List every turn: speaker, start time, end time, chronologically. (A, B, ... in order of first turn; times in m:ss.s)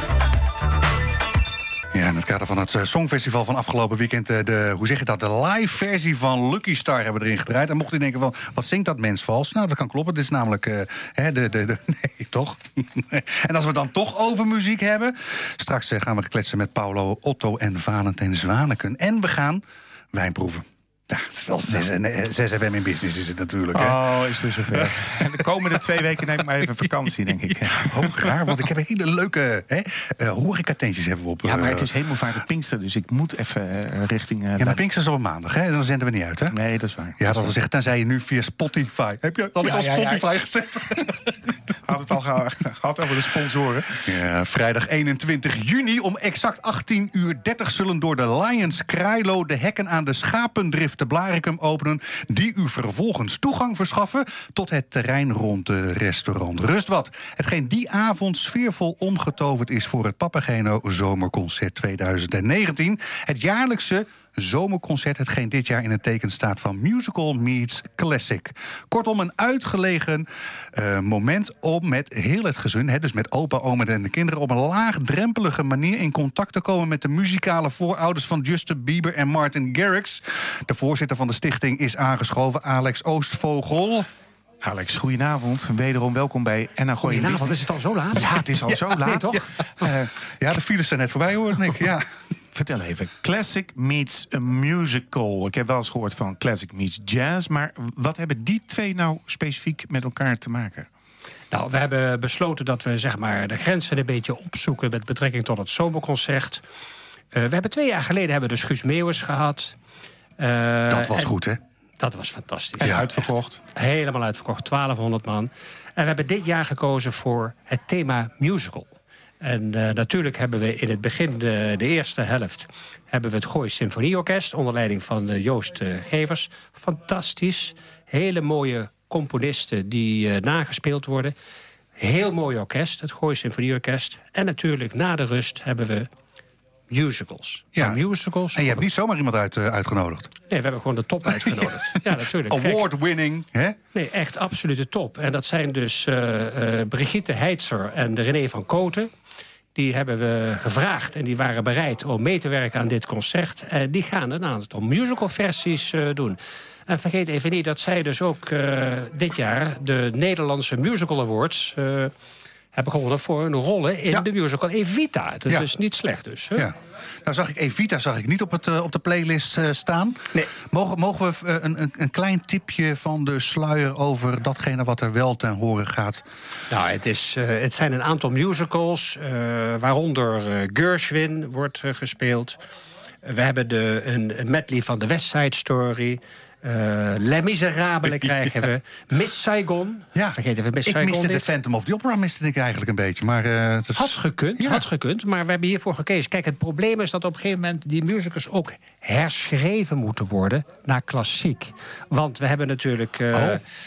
0:01.9-0:19.6 A
0:20.1-0:25.8 A
0:23.7-0:28.6 B
0:27.5-0:31.9 A
0:31.4-0:34.8 B
0:34.6-0:36.6 A
0:36.5-0:37.5 B
0:37.2-0:41.5 A
0:39.6-0:40.3 B
0:41.8-0:44.2 B
0:44.1-1:24.1 A
1:24.6-1:30.1 B
1:27.0-1:28.3 C
1:28.7-1:32.1 A
1:29.0-1:29.4 C
1:32.5-1:40.9 B
1:41.5-1:46.6 C
1:47.3-1:49.7 C
1:50.4-1:51.3 C
1:50.9-1:51.6 A
1:52.0-1:58.9 C
1:52.8-1:53.6 B
1:59.4-2:11.3 C
2:12.0-2:16.1 C
2:16.9-2:18.9 C
2:18.5-2:20.3 A
2:20.5-2:22.8 C
2:21.3-2:21.8 A
2:22.5-2:23.8 A
2:23.9-2:29.1 C
2:29.7-2:42.1 C
2:42.7-2:46.7 C
2:46.6-2:56.2 A
2:56.7-3:02.6 C
3:03.2-3:11.5 C
3:10.2-3:14.8 A
3:13.9-3:23.6 C
3:23.3-3:23.6 A